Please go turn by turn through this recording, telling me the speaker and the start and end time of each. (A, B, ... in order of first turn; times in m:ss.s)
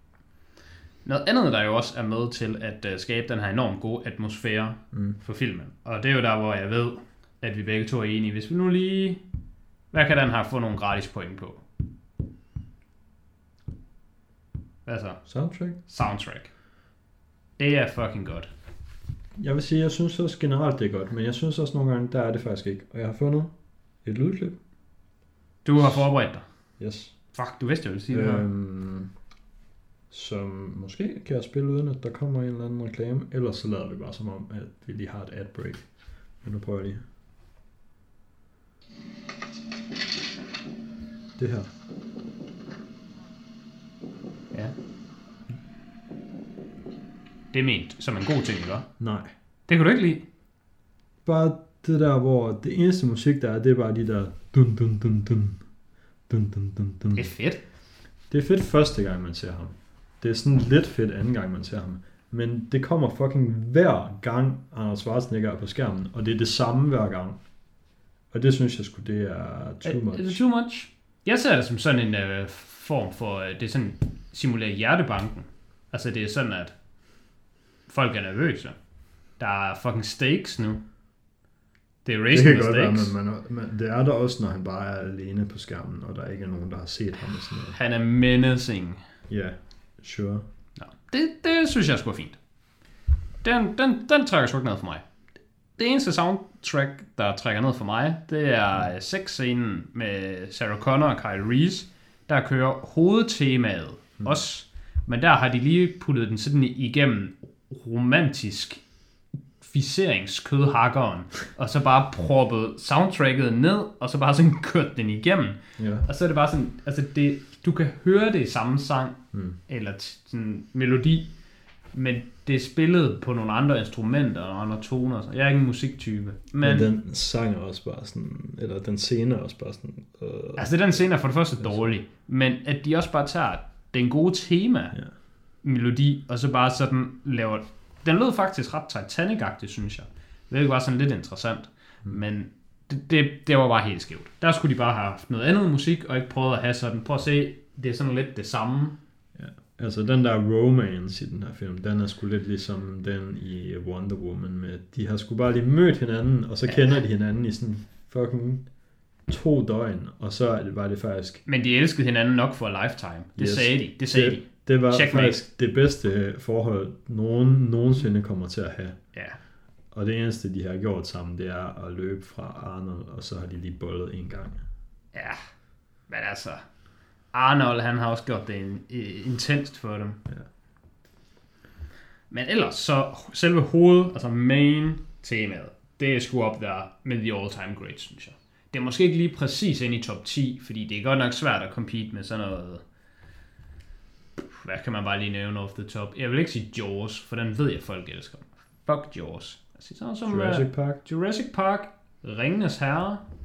0:01.0-0:09.2 A
0:09.9-0:11.6 A
0:14.8-0:15.2 A
0:15.3-0:15.8 B
0:15.8-0:16.5 A
0:17.6-0:18.5 A
0:19.4-0:23.5 B
0:24.0-0:24.6 B
0:25.6-0:26.4 A
0:26.8-0:27.1 B
0:27.3-0:28.4 A
0:28.1-0:29.1 B
0:30.1-0:35.8 B
0:36.4-0:37.0 B
0:41.4-0:41.7 B
0:47.5-0:48.9 A
0:49.0-0:49.3 B
0:49.7-0:50.2 A
0:51.2-0:55.6 B
0:56.3-0:57.3 B
0:57.1-0:57.6 A
0:58.3-1:07.4 B
1:08.3-1:10.4 B
1:09.8-1:16.7 A
1:17.9-1:18.8 A
1:19.4-1:20.8 A
1:22.0-1:23.1 A
1:22.3-1:27.7 B
1:27.7-1:29.0 A
1:29.3-1:30.4 B
1:30.8-1:32.4 A
1:33.4-1:35.0 A
1:35.8-1:48.8 A
1:49.6-2:01.3 A
1:55.8-1:56.1 B
2:01.9-2:06.9 A
2:06.6-2:11.0 B
2:10.6-2:15.0 A
2:11.6-2:11.9 B
2:15.6-2:29.0 A
2:29.4-2:38.7 B
2:39.3-2:41.4 B
2:41.4-2:45.4 A
2:43.4-2:48.9 B
2:49.9-2:54.6 B
2:55.1-2:55.4 A
2:56.1-2:56.6 A
2:57.3-3:00.2 A
3:02.3-3:12.8 A
3:14.5-3:23.2 A
3:20.2-3:21.0 B